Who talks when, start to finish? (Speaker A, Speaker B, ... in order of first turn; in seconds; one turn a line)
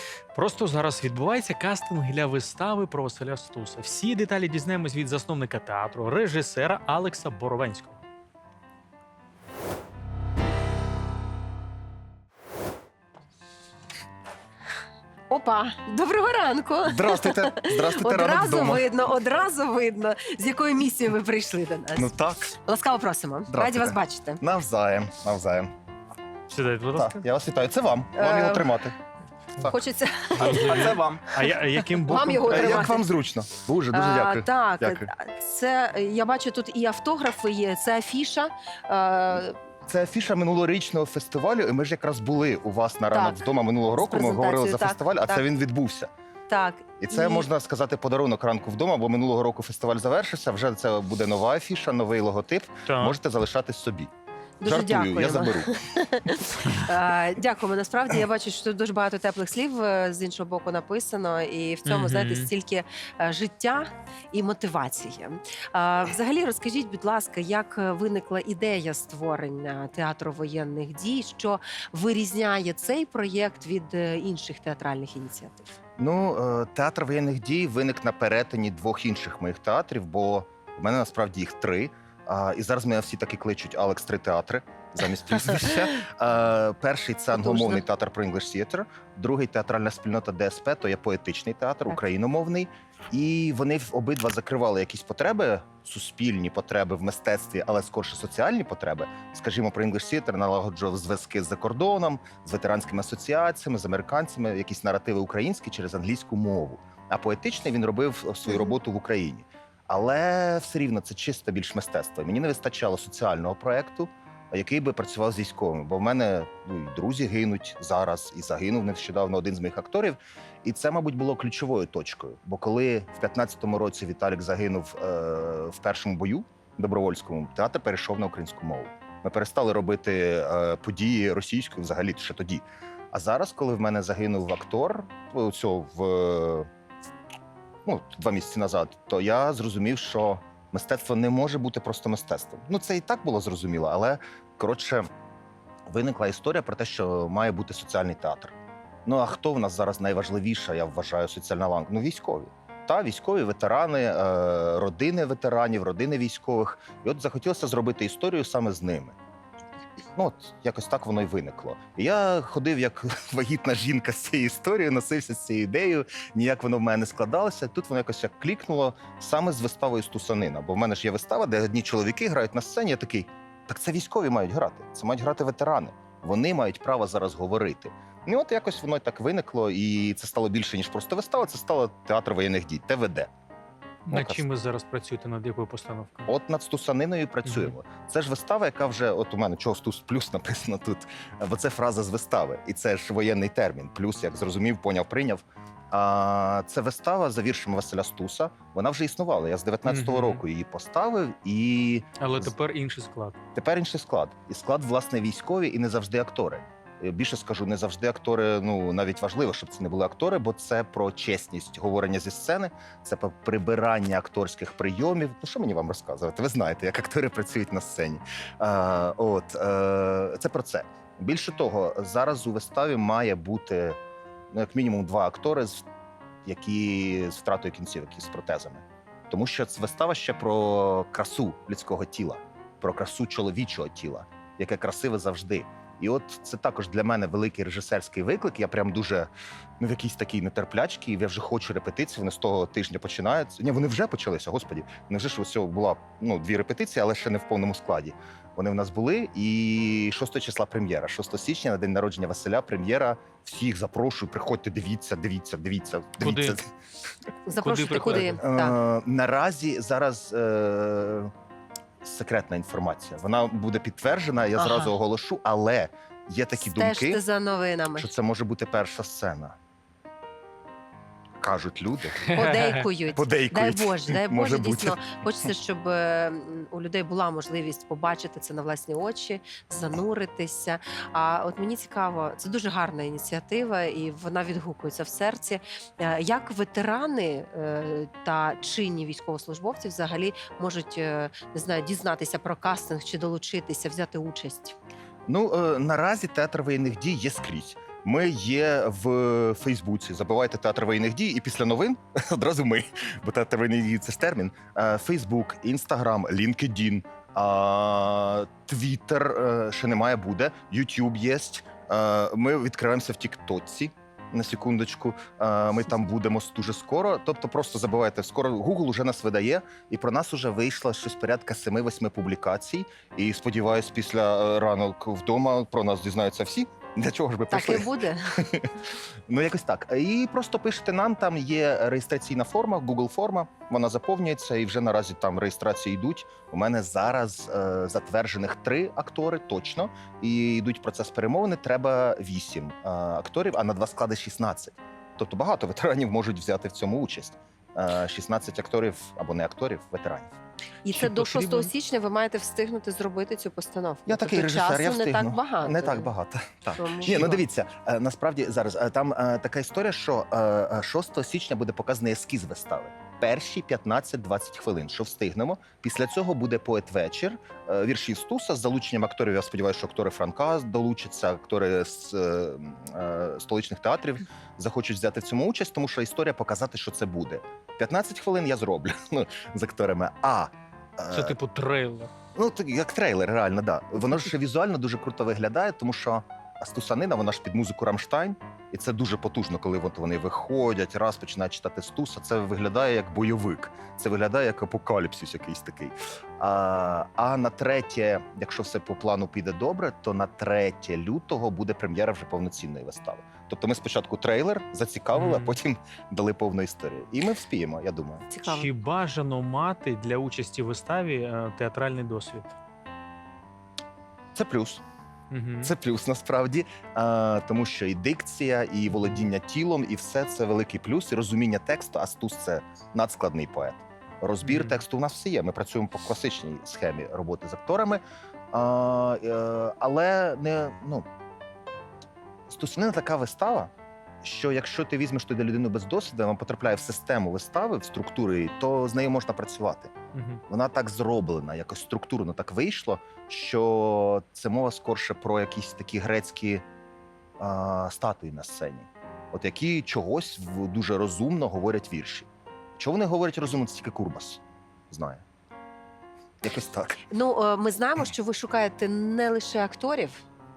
Speaker A: 0.3-8.0
Speaker B: 15.3-22.1
Speaker C: 16.8-18.9
Speaker C: 21.9-22.6
Speaker B: 22.6-24.4
Speaker C: 23.5-25.7
Speaker A: 26.5-27.2
Speaker C: 26.9-28.9
Speaker B: 28.1-28.8
Speaker B: 29.6-31.0
Speaker A: 30.3-32.9
Speaker C: 30.4-31.4
Speaker B: 32.0-33.0
Speaker C: 32.5-35.1
Speaker B: 33.9-39.6
Speaker C: 39.9-46.1
Speaker B: 43.1-45.4
Speaker B: 46.5-47.5
Speaker C: 47.0-54.1
Speaker A: 52.9-53.2
Speaker B: 54.6-75.7
Speaker C: 54.6-55.8
Speaker A: 61.9-62.5
Speaker C: 76.0-136.7
Speaker B: 87.3-87.8
Speaker B: 108.5-108.7
Speaker C: 137.8-145.1
Speaker C: 145.9-159.2
Speaker C: 160.2-183.3
Speaker A: 184.1-186.3
Speaker C: 184.1-184.4
Speaker C: 186.3-202.5
Speaker A: 187.4-187.8
Speaker A: 199.8-200.4
Speaker A: 202.2-203.4
Speaker C: 203.5-224.0
Speaker C: 224.5-225.8
Speaker C: 226.4-256.7
Speaker A: 256.2-256.6
Speaker B: 257.4-258.8
Speaker A: 257.6-258.4
Speaker C: 258.4-261.3
Speaker C: 262.0-267.2
Speaker B: 264.6-264.9
Speaker B: 266.6-268.1
Speaker C: 268.0-269.6
Speaker C: 271.4-272.4
Speaker A: 272.2-272.9
Speaker B: 272.3-294.8
Speaker C: 273.1-275.5
Speaker C: 295.3-328.7
Speaker B: 327.5-328.4
Speaker C: 329.3-350.3
Speaker B: 350.8-356.1
Speaker C: 350.9-351.7
Speaker C: 354.1-381.4
Speaker B: 356.8-357.4
Speaker A: 381.1-382.1
Speaker C: 382.3-408.3
Speaker A: 405.1-405.6
Speaker B: 408.3-408.7
Speaker A: 408.4-412.5
Speaker C: 414.3-414.8
Speaker A: 415.3-415.7
Speaker C: 415.6-428.0
Speaker A: 418.9-419.3
Speaker A: 424.4-424.8
Speaker C: 428.5-431.1
Speaker C: 432.5-433.7
Speaker C: 434.2-439.9
Speaker A: 440.1-440.4
Speaker C: 440.5-446.6
Speaker C: 447.4-455.2
Speaker C: 456.4-457.0
Speaker B: 457.1-460.2